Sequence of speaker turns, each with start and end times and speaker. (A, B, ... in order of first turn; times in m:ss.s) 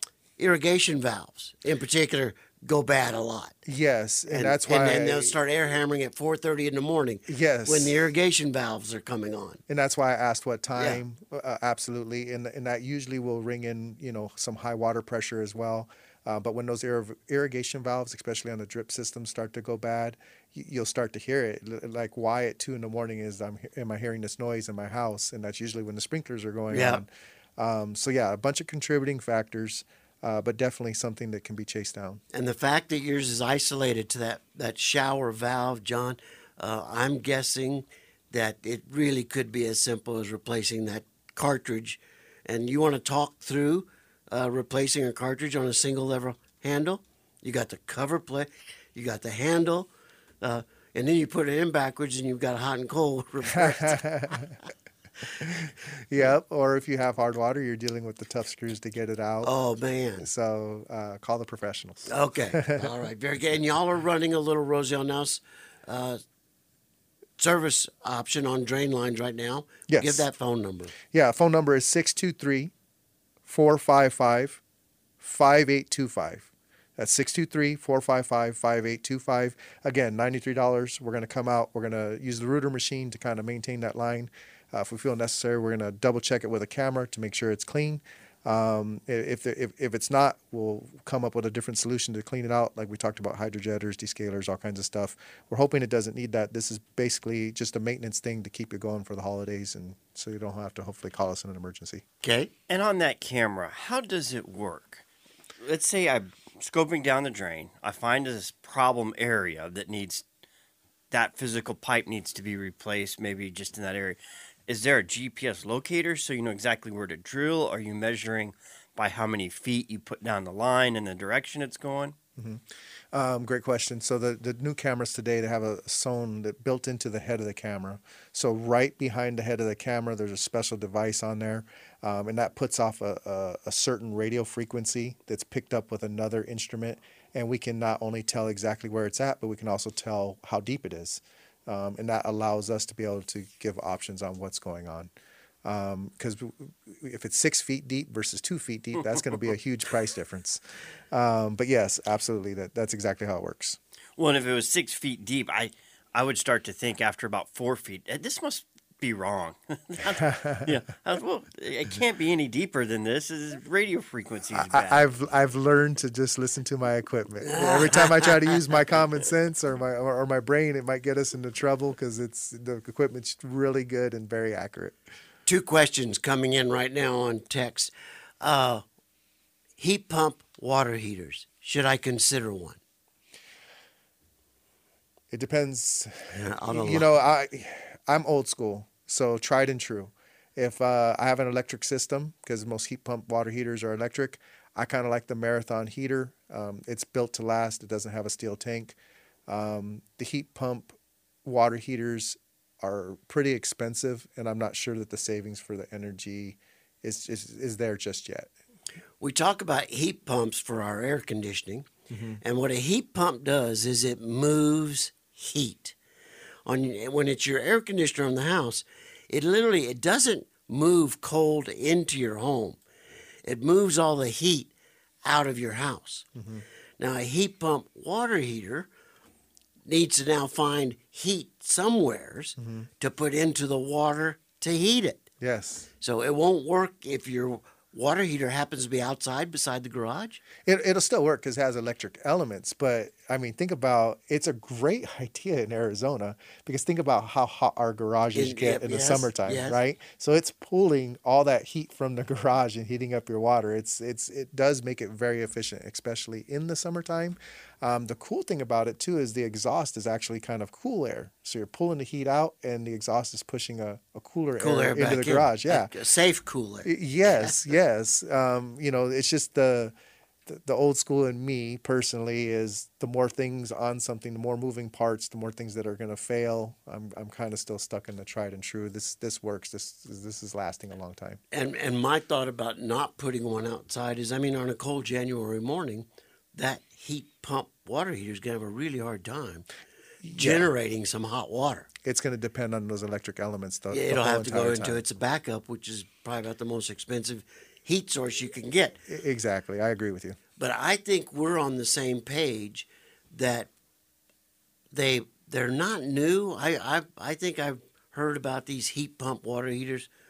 0:00.4-0:03.6 A
0:03.7-0:05.4 B
0:04.3-0:09.6 A
0:07.3-0:08.0 B
0:09.7-0:32.2 B
0:26.7-0:27.0 A
0:32.3-0:49.9 A
0:50.4-0:54.5 A
0:53.5-0:54.5 B
0:55.4-0:59.5 B
0:59.4-1:00.3 A
1:00.2-1:02.9 B
1:02.1-1:06.2 A
1:07.4-1:10.9 A
1:09.9-1:10.3 B
1:11.1-1:12.7 B
1:13.5-1:14.6 B
1:15.2-1:42.0 B
1:42.2-1:42.5 A
1:42.7-1:45.0 C
1:45.6-1:50.2 C
1:51.1-2:02.2 C
2:02.4-2:25.1 B
2:25.6-2:30.6 B
2:31.1-2:33.8 B
2:34.2-2:45.0 C
2:44.5-2:55.0 B
2:47.5-2:48.3 A
2:55.5-2:58.8 A
2:59.8-3:02.8 A
3:05.3-3:19.0 B
3:06.3-3:07.1 A
3:19.5-3:28.5 B
3:29.2-3:31.9 A
3:32.1-3:32.4 B
3:32.4-3:36.0 A
3:36.7-3:42.8 A
3:43.4-3:44.7 A
3:45.2-3:46.3 A
3:46.4-3:46.6 B
3:47.0-3:48.9 A
3:49.9-3:55.2 A
3:52.6-3:52.9 B
3:55.4-3:55.9 B
3:56.0-4:00.4 A
4:00.7-4:25.9 B
4:08.3-4:09.8 A
4:24.6-4:27.6 A
4:26.8-4:30.0 B
4:30.5-4:41.4 B
4:41.5-4:49.7 A
4:50.2-4:50.7 B
4:50.3-4:51.9 A
4:52.0-4:55.0 B
4:53.9-4:59.0 A
4:59.1-5:00.4 B
5:00.6-5:03.7 A
5:04.9-5:10.1 A